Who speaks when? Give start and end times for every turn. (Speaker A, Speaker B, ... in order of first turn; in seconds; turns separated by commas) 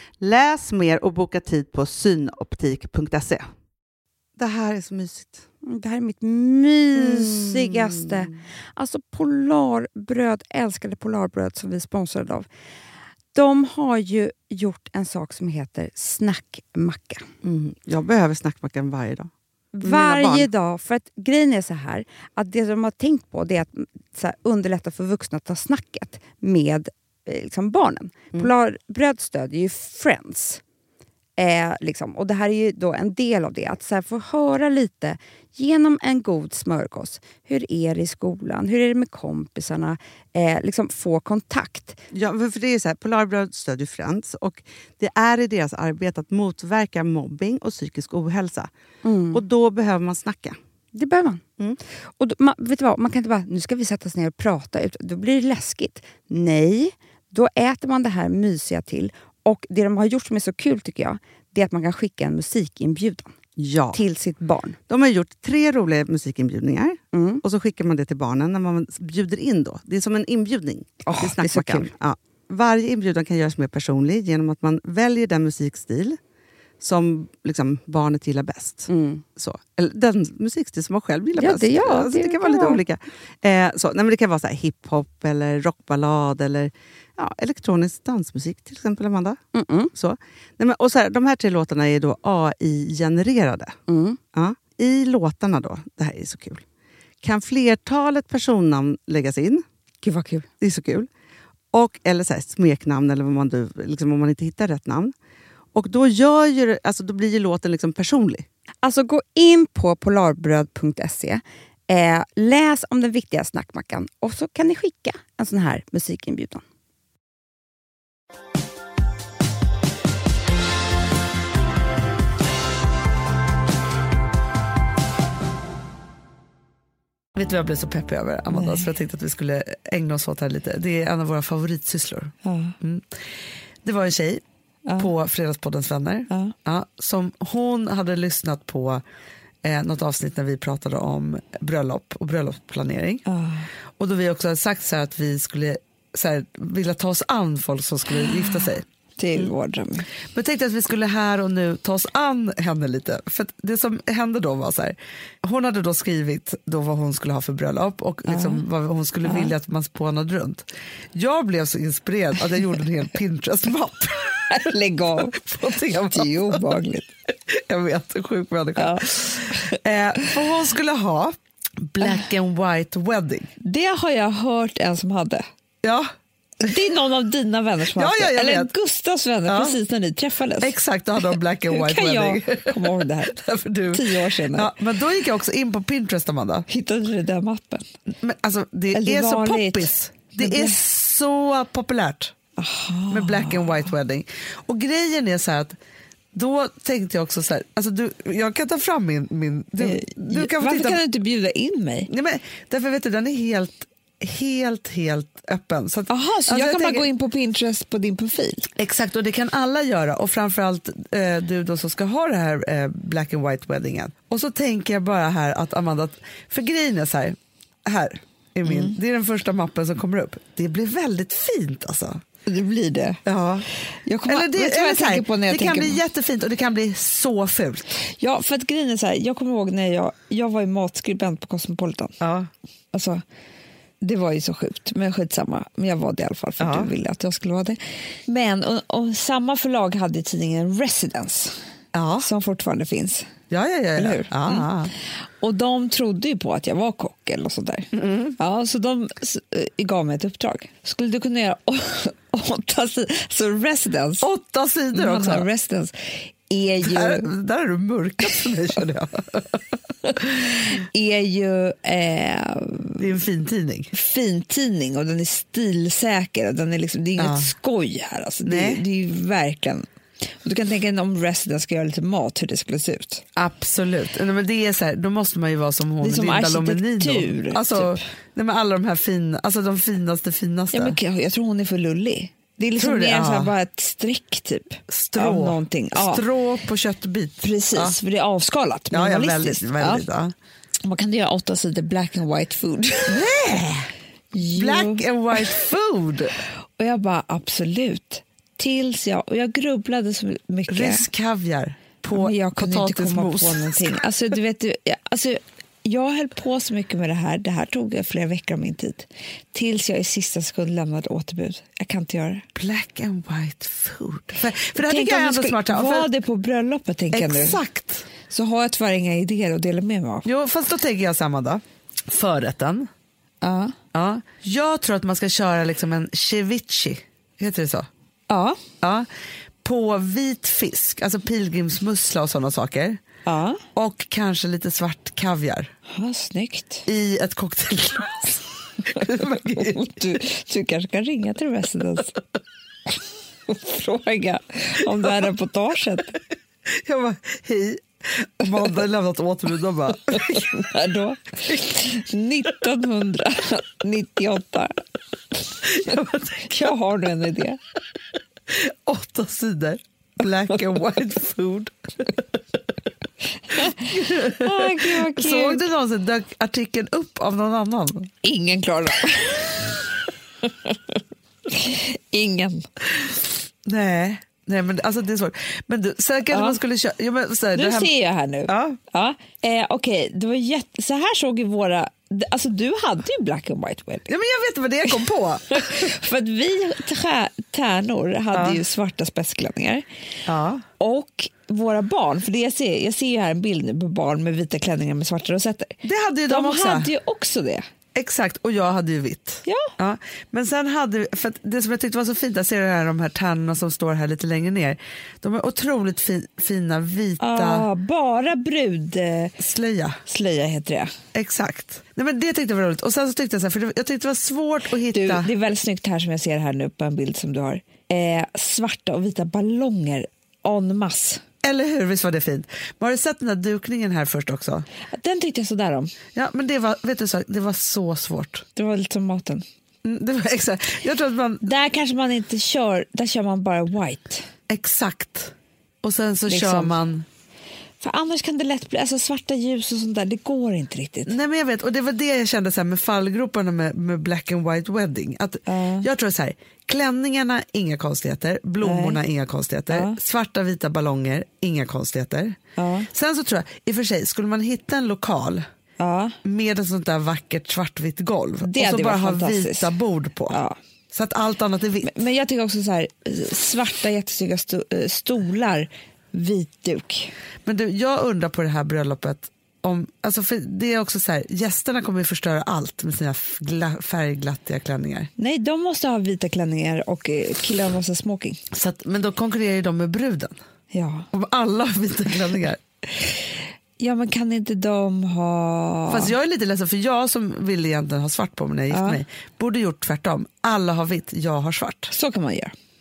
Speaker A: 0.2-3.4, Speaker A: 4.4-5.4, Speaker B: 5.6-12.5, Speaker A: 6.9-8.3, Speaker B: 13.3-17.2, Speaker A: 17.4-19.3, Speaker B: 19.7-30.6, Speaker A: 19.8-20.5, Speaker B: 31.4-42.0, Speaker A: 42.1-48.7, Speaker B: 49.0-49.4, Speaker A: 49.3-50.6, Speaker B: 50.9-51.4, Speaker B: 52.2-63.3, Speaker A: 63.6-64.0, Speaker B: 63.9-64.8, Speaker A: 64.9-76.2, Speaker B: 67.1-67.4, Speaker B: 71.0-71.9, Speaker A: 76.8-89.4, Speaker B: 78.9-79.2, Speaker B: 81.4-82.8, Speaker B: 89.5-89.9, Speaker A: 89.9-93.8, Speaker B: 93.9-94.2, Speaker A: 94.3-96.6, Speaker A: 97.2-99.6, Speaker B: 100.0-100.5, Speaker A: 100.6-101.1, Speaker A: 101.7-105.1, Speaker A: 105.7-108.5, Speaker B: 108.8-116.6, Speaker C: 127.3-133.1, Speaker D: 128.5-128.9, Speaker D: 132.4-132.8, Speaker C: 133.8-134.4, Speaker C: 135.0-139.0, Speaker D: 136.3-136.5, Speaker C: 139.6-143.2, Speaker D: 143.3-143.7, Speaker C: 144.0-148.8, Speaker D: 149.2-150.1, Speaker C: 150.3-164.7, Speaker D: 158.3-158.6, Speaker D: 159.2-159.5, Speaker D: 164.5-167.1, Speaker C: 165.3-166.8, Speaker C: 167.5-173.5, Speaker D: 168.8-169.8, Speaker D: 173.6-175.5, Speaker C: 175.8-176.1, Speaker D: 176.6-180.7, Speaker C: 177.9-178.7, Speaker C: 179.5-179.8, Speaker C: 180.6-186.7, Speaker D: 181.7-184.7, Speaker D: 186.7-187.8, Speaker C: 188.2-192.3, Speaker D: 188.9-190.8, Speaker D: 192.6-193.9, Speaker C: 193.1-195.8, Speaker C: 196.3-201.0, Speaker D: 199.8-202.1, Speaker C: 202.1-207.1, Speaker D: 206.1-208.7, Speaker C: 208.8-222.2, Speaker D: 218.6-218.9, Speaker D: 222.4-223.2, Speaker C: 223.2-223.6, Speaker D: 224.0-226.0, Speaker C: 224.3-228.0, Speaker D: 228.0-232.2, Speaker C: 232.2-232.5, Speaker D: 232.9-233.2, Speaker D: 234.0-241.6, Speaker C: 236.6-236.9, Speaker C: 241.9-242.3, Speaker D: 242.2-243.3, Speaker C: 243.5-244.9, Speaker D: 244.0-254.3, Speaker C: 247.9-248.3, Speaker C: 254.2-255.5, Speaker D: 254.9-257.3, Speaker C: 256.8-259.6, Speaker D: 260.1-263.0, Speaker C: 263.0-263.9, Speaker D: 263.9-269.9, Speaker C: 267.2-267.5, Speaker C: 268.4-268.8, Speaker D: 270.4-273.2, Speaker C: 273.4-281.0, Speaker D: 276.0-278.0, Speaker D: 280.7-286.2, Speaker C: 282.8-283.5, Speaker C: 284.9-288.0, Speaker D: 287.4-290.1, Speaker C: 288.9-290.3, Speaker D: 290.8-293.4, Speaker C: 293.1-293.9, Speaker D: 294.3-295.5, Speaker C: 294.5-296.3, Speaker D: 296.8-301.1, Speaker C: 300.7-304.0, Speaker D: 302.1-312.4, Speaker C: 312.5-316.1, Speaker D: 314.7-317.6, Speaker C: 317.1-318.1, Speaker D: 318.3-320.3, Speaker C: 320.2-322.9, Speaker D: 323.4-323.7, Speaker C: 323.9-327.9, Speaker D: 328.3-328.6, Speaker C: 328.8-329.1, Speaker C: 329.6-333.0, Speaker D: 333.2-333.6, Speaker C: 333.7-335.7, Speaker D: 335.9-336.9, Speaker C: 336.9-339.8, Speaker D: 338.9-342.2, Speaker D: 343.5-346.1, Speaker C: 346.7-350.6, Speaker D: 350.1-354.8, Speaker D: 355.5-357.6, Speaker C: 355.6-356.7, Speaker C: 358.5-362.4, Speaker D: 363.5-365.6, Speaker C: 363.5-368.1, Speaker D: 368.2-369.9, Speaker D: 370.4-372.7, Speaker C: 373.6-377.9, Speaker D: 376.3-376.6, Speaker D: 377.5-384.1, Speaker C: 378.5-378.8, Speaker C: 384.1-385.9, Speaker D: 385.5-389.9, Speaker C: 388.3-388.6, Speaker C: 390.2-390.6, Speaker D: 390.8-397.6, Speaker C: 395.8-396.9, Speaker C: 397.9-407.7, Speaker D: 399.4-399.7, Speaker D: 407.2-409.4, Speaker C: 409.4-410.0, Speaker D: 410.1-410.9, Speaker C: 411.1-415.3, Speaker D: 414.9-421.2, Speaker C: 421.4-424.6, Speaker D: 424.9-425.9, Speaker C: 426.1-428.4, Speaker D: 428.6-429.4, Speaker C: 429.8-431.4, Speaker D: 431.4-434.3, Speaker C: 434.5-437.1, Speaker D: 436.3-436.7, Speaker D: 437.8-441.1, Speaker C: 441.1-452.4, Speaker D: 445.4-445.9, Speaker D: 448.6-449.0, Speaker D: 449.7-450.0, Speaker D: 452.6-452.9, Speaker C: 452.9-455.4, Speaker D: 455.8-456.2, Speaker C: 456.2-460.4, Speaker D: 458.4-459.7, Speaker D: 460.3-460.6, Speaker C: 460.9-461.9, Speaker D: 461.8-467.1, Speaker C: 467.4-475.1, Speaker D: 475.2-478.4, Speaker C: 478.5-480.4, Speaker D: 480.7-481.1, Speaker C: 481.1-482.6, Speaker D: 483.8-486.1, Speaker C: 485.9-491.9, Speaker D: 488.7-489.0, Speaker D: 491.9-492.5